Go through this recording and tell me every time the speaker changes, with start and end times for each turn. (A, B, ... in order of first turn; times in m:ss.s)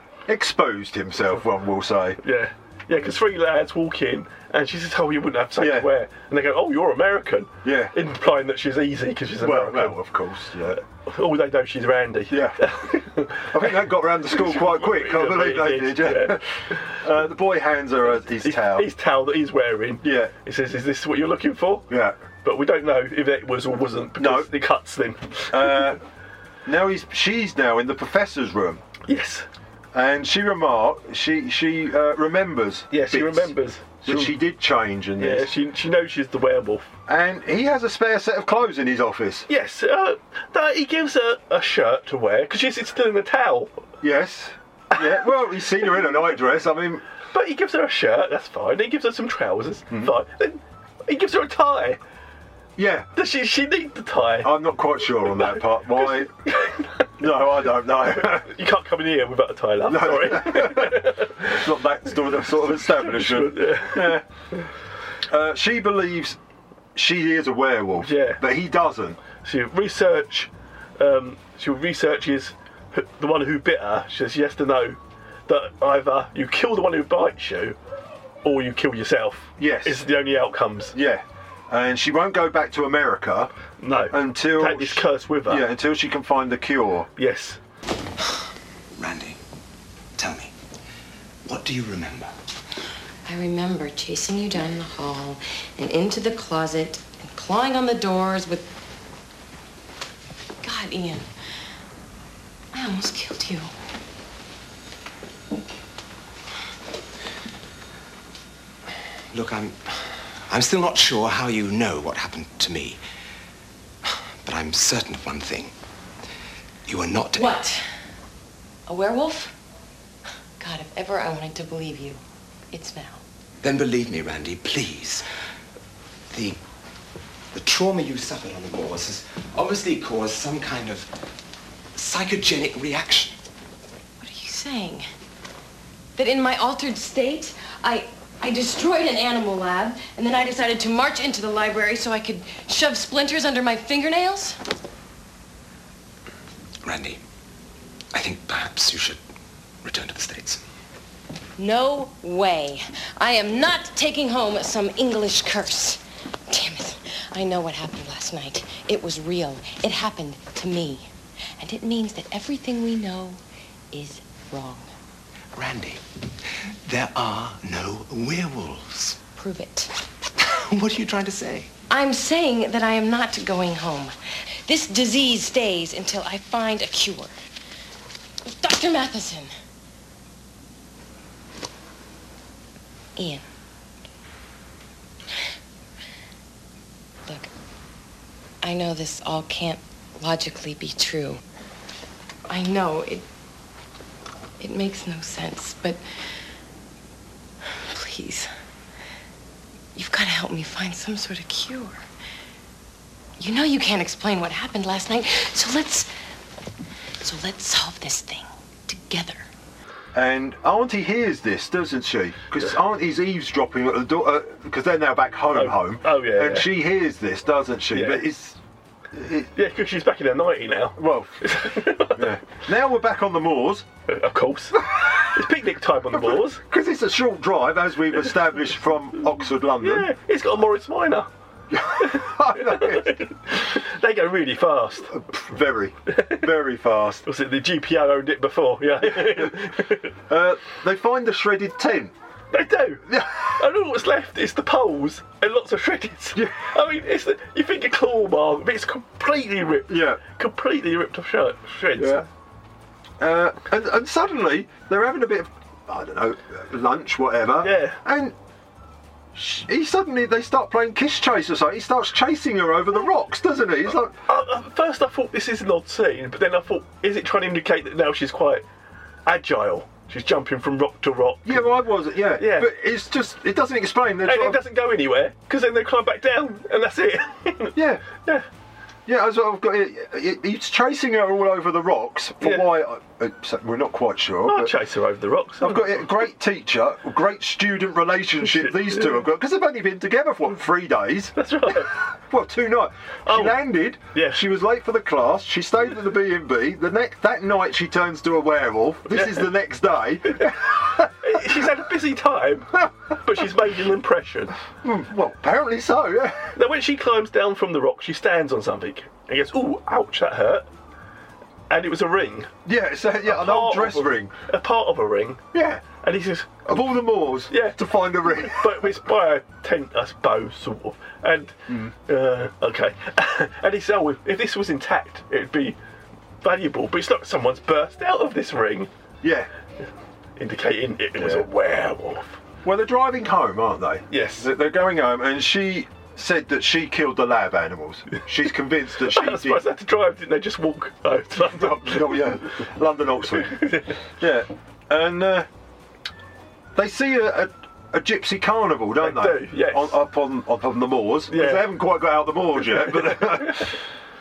0:00.3-0:02.2 A
0:02.2-0:10.0 B
0:05.6-0:05.9 A
0:07.6-0:08.0 A
0:09.4-0:10.8 A
0:10.9-0:16.4 B
0:12.3-0:12.7 A
0:13.5-0:18.9 A
0:18.4-0:21.9 B
0:20.0-0:20.3 A
0:21.9-0:22.2 A
0:22.4-0:25.9 B
0:24.2-0:24.5 A
0:25.5-0:26.0 A
0:26.6-0:28.8 A
0:29.1-0:29.5 B
0:29.9-0:35.5 A
0:32.9-0:34.4 B
0:35.2-0:36.9 B
0:37.1-0:39.5 A
0:39.5-0:43.7 B
0:44.0-0:47.0 A
0:47.3-0:52.0 B
0:52.8-0:53.1 A
0:53.2-0:54.5 B
0:54.4-0:56.3 A
0:56.0-0:57.0 B
0:57.2-0:58.5 A
0:58.1-1:01.6 B
0:59.8-1:04.2 A
1:02.7-1:04.2 B
1:05.3-1:06.4 A
1:07.0-1:09.2 A
1:08.0-1:08.4 B
1:09.4-1:17.8 B
1:18.4-1:21.0 B
1:19.6-1:20.1 A
1:20.9-1:23.5 A
1:23.8-1:25.7 B
1:24.1-1:27.1 A
1:27.2-1:27.6 B
1:29.0-1:29.4 C
1:30.2-1:30.5 C
1:31.4-1:32.4 C
1:33.3-1:38.7 D
1:40.6-1:41.3 D
1:42.7-1:43.7 D
1:49.3-1:53.0 C
1:54.0-1:55.7 C
1:56.9-1:57.6 C
1:57.4-1:57.8 D
1:58.9-1:59.5 D
2:00.6-2:02.2 D
2:02.7-2:03.2 D
2:03.6-2:05.2 C
2:06.3-2:06.6 C
2:07.5-2:11.1 C
2:12.0-2:13.4 C
2:14.2-2:15.1 D
2:16.2-2:24.6 D
2:26.8-2:27.2 C
2:28.1-2:29.2 C
2:29.8-2:30.6 C
2:31.6-2:43.4 D
2:43.9-2:44.9 D
2:45.6-2:46.0 C
2:46.8-2:49.2 C
2:49.4-2:49.9 D
2:50.4-2:51.7 C
2:51.9-2:54.1 D
2:54.7-2:57.3 D
2:58.5-2:59.5 D
3:03.2-3:03.4 D
3:08.6-3:11.4 D
3:12.5-3:13.2 D
3:14.6-3:16.0 D
3:17.8-3:18.5 D
3:20.0-3:22.0 D
3:23.4-3:26.1 D
3:27.2-3:29.5 D
3:30.1-3:38.6 A
3:35.5-3:36.7 B
3:37.9-3:38.3 B
3:39.1-3:39.5 A
3:39.6-3:42.3 B
3:41.0-3:41.4 A
3:42.1-3:43.9 A
3:44.1-3:46.6 B
3:44.8-3:45.3 A
3:46.1-3:50.1 A
3:49.8-3:51.3 B
3:51.7-3:53.2 A
3:52.0-3:55.1 B
3:55.1-3:57.2 A
3:57.2-4:00.1 B
3:59.0-3:59.5 A
4:00.3-4:02.1 A
4:02.5-4:12.3 B
4:03.1-4:03.6 A
4:06.4-4:06.6 A
4:09.9-4:10.2 A
4:12.0-4:12.3 A
4:13.2-4:18.3 A
4:17.6-4:18.0 B
4:19.3-4:24.1 A
4:24.3-4:28.6 B
4:29.3-4:31.7 B
4:31.4-4:34.6 A
4:32.4-4:32.7 B
4:34.2-4:38.4 B
4:37.8-4:38.0 A
4:39.1-4:44.7 A
4:42.4-4:42.7 B
4:44.5-4:46.0 B
4:45.6-5:01.4 A
4:48.5-4:49.2 B
4:51.4-4:51.9 B
4:53.3-4:54.4 B
4:59.1-4:59.5 B
5:01.2-5:04.6 B
5:04.8-5:06.5 A
5:06.6-5:10.7 B
5:11.7-5:12.5 B
5:12.6-5:14.3 A
5:13.2-5:15.4 B
5:15.5-5:15.8 A
5:16.0-5:16.7 B
5:16.7-5:19.0 A
5:17.5-5:17.8 B
5:18.4-5:25.8 B
5:21.7-5:21.9 A
5:26.4-5:28.9 B
5:29.2-5:29.5 A
5:30.4-5:32.4 B
5:31.2-5:31.5 A
5:32.6-5:39.7 A
5:34.1-5:34.5 B
5:39.1-5:42.3 B
5:41.4-5:45.5 A
5:43.5-5:43.9 B
5:46.8-5:53.7 A
5:49.0-5:50.0 B
5:51.3-5:51.7 B
5:52.8-5:53.6 B